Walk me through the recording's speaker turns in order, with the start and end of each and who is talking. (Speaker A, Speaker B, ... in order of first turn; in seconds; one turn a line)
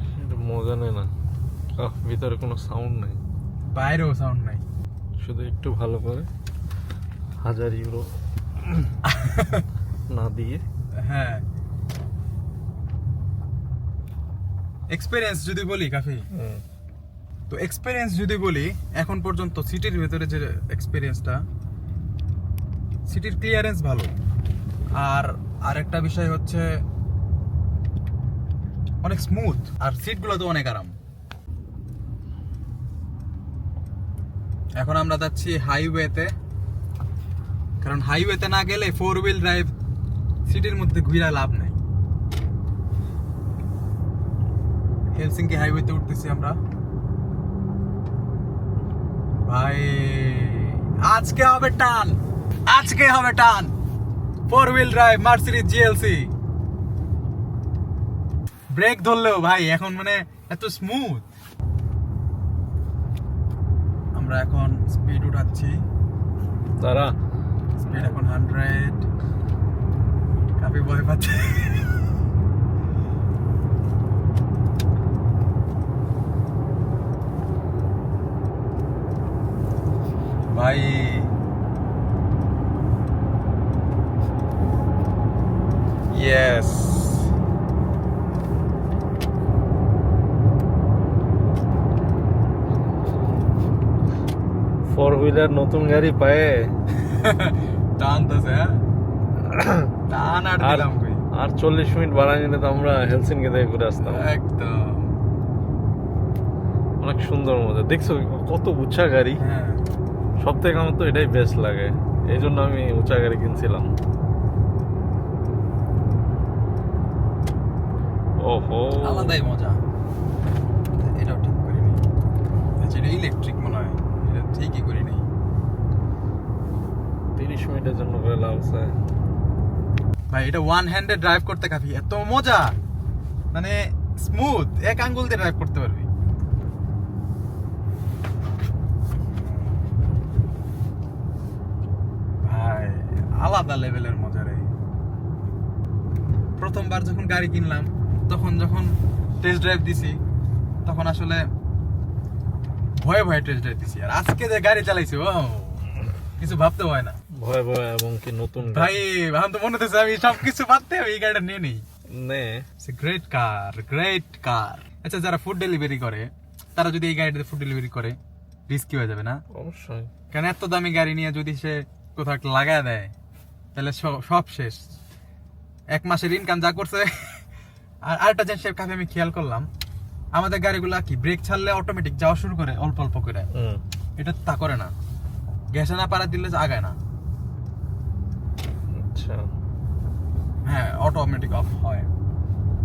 Speaker A: 0.1-1.1
Speaker A: 1.8-3.2
Speaker B: 3.7-4.6
Speaker A: 5.2-6.3
Speaker A: 7.4-8.1
Speaker B: 9.0-9.7
Speaker A: 10.1-10.7
Speaker B: 11.0-11.4
Speaker B: 14.9-16.2
Speaker A: 16.3-16.6
Speaker B: 17.5-21.4
Speaker B: 23.1-24.1
Speaker B: 25.0-26.8
Speaker B: 29.0-30.9
Speaker B: 34.8-36.3
Speaker B: 37.8-39.7
Speaker B: 40.5-41.8
Speaker B: 45.2-46.6
Speaker B: 49.5-53.7
Speaker B: 54.5-56.3
Speaker B: 58.7-61.2
Speaker B: 64.2-65.8
Speaker A: 66.8-67.2
Speaker B: 67.8-69.0
Speaker B: 70.6-72.1
Speaker B: 80.5-81.3
Speaker B: 86.1-87.3
Speaker A: 94.9-96.7
Speaker B: 97.0-98.8
Speaker A: 99.4-99.9
Speaker B: 100.1-101.2
Speaker A: 100.6-104.3
Speaker B: 104.0-105.2
Speaker A: 107.0-109.4
Speaker B: 109.4-109.8
Speaker A: 110.4-113.9
Speaker A: 118.4-119.4
Speaker B: 119.0-119.8
Speaker B: 121.0-122.0
Speaker B: 122.8-125.3
Speaker A: 127.3-129.0
Speaker B: 130.3-132.8
Speaker B: 133.5-136.1
Speaker B: 142.4-144.7
Speaker B: 146.6-150.2
Speaker B: 150.8-151.5
Speaker B: 153.0-157.2
Speaker A: 157.3-159.0
Speaker B: 158.6-161.8
Speaker A: 162.1-162.7
Speaker B: 162.8-168.2
Speaker B: 168.7-169.4
Speaker A: 169.5-170.1
Speaker B: 170.3-173.1
Speaker B: 173.8-174.9
Speaker B: 175.9-177.4
Speaker B: 178.1-179.7
Speaker B: 180.3-183.5
Speaker A: 183.5-183.8
Speaker B: 184.2-184.9
Speaker B: 185.7-187.0
Speaker A: 188.9-189.5
Speaker B: 190.7-192.1